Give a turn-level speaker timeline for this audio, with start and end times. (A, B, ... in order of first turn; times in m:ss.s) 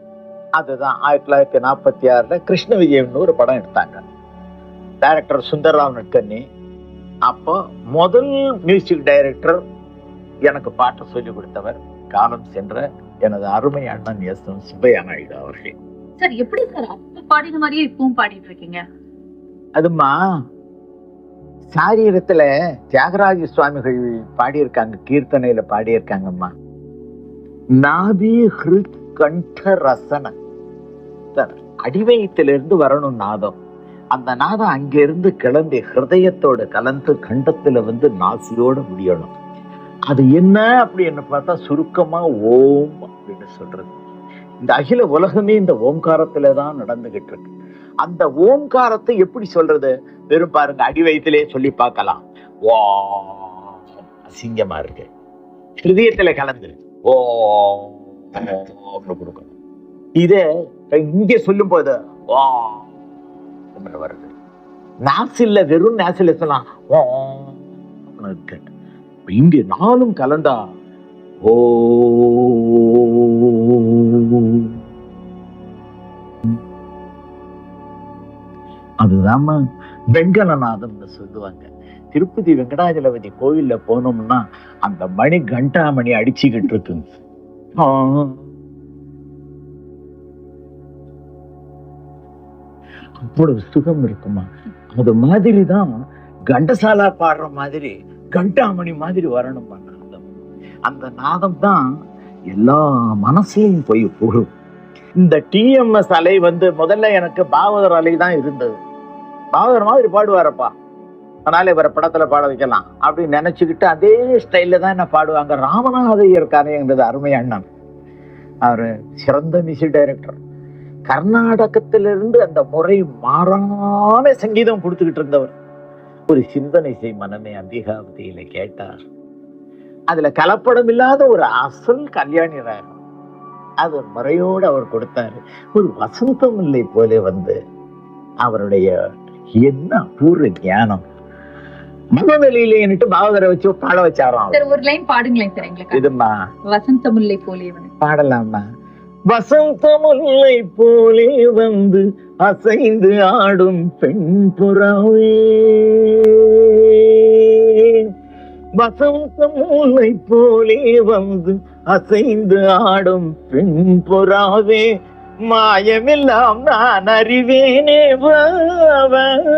0:00.6-0:04.0 A
0:05.0-0:06.4 A
0:07.3-0:09.6 A
0:10.5-0:15.8 A
0:16.2-0:18.8 B
0:19.8-0:20.1 A
0:21.7-0:26.5 A
0:27.8-0:30.3 A
0:31.3-0:33.6 A
0:34.1-0:39.3 A
0:40.1-0:43.9 A
0:44.6-0:47.5 A
0:48.0-0:55.1 A
0:55.8-0:59.5 A
1:00.9-1:02.8 A
1:03.8-1:04.3 A
1:05.1-1:07.5 A
1:08.1-1:08.6 A
1:09.3-1:10.6 A
1:11.4-1:14.7 A
1:19.0-1:19.6 A
1:20.2-1:27.0 A
1:27.8-1:28.4 A
1:33.2-1:35.9 A
1:36.5-1:40.2 A
1:40.9-1:41.8 A
1:42.5-1:44.5 A
1:45.2-1:48.7 A
1:49.5-1:50.7 A
1:51.4-1:57.6 A
1:58.6-2:00.4 A
2:01.1-2:05.5 A
2:06.3-2:08.9 A
2:10.1-2:13.0 A
2:13.8-2:17.6 A
2:18.4-2:18.9 A
2:19.6-2:21.0 A
2:22.2-2:24.6 A
2:24.5-2:26.1 B
2:25.9-2:26.3 A
2:26.7-2:27.9 B
2:28.0-2:28.6 A
2:29.3-2:37.8 A
2:38.8-2:44.8 A
2:45.4-2:49.3 A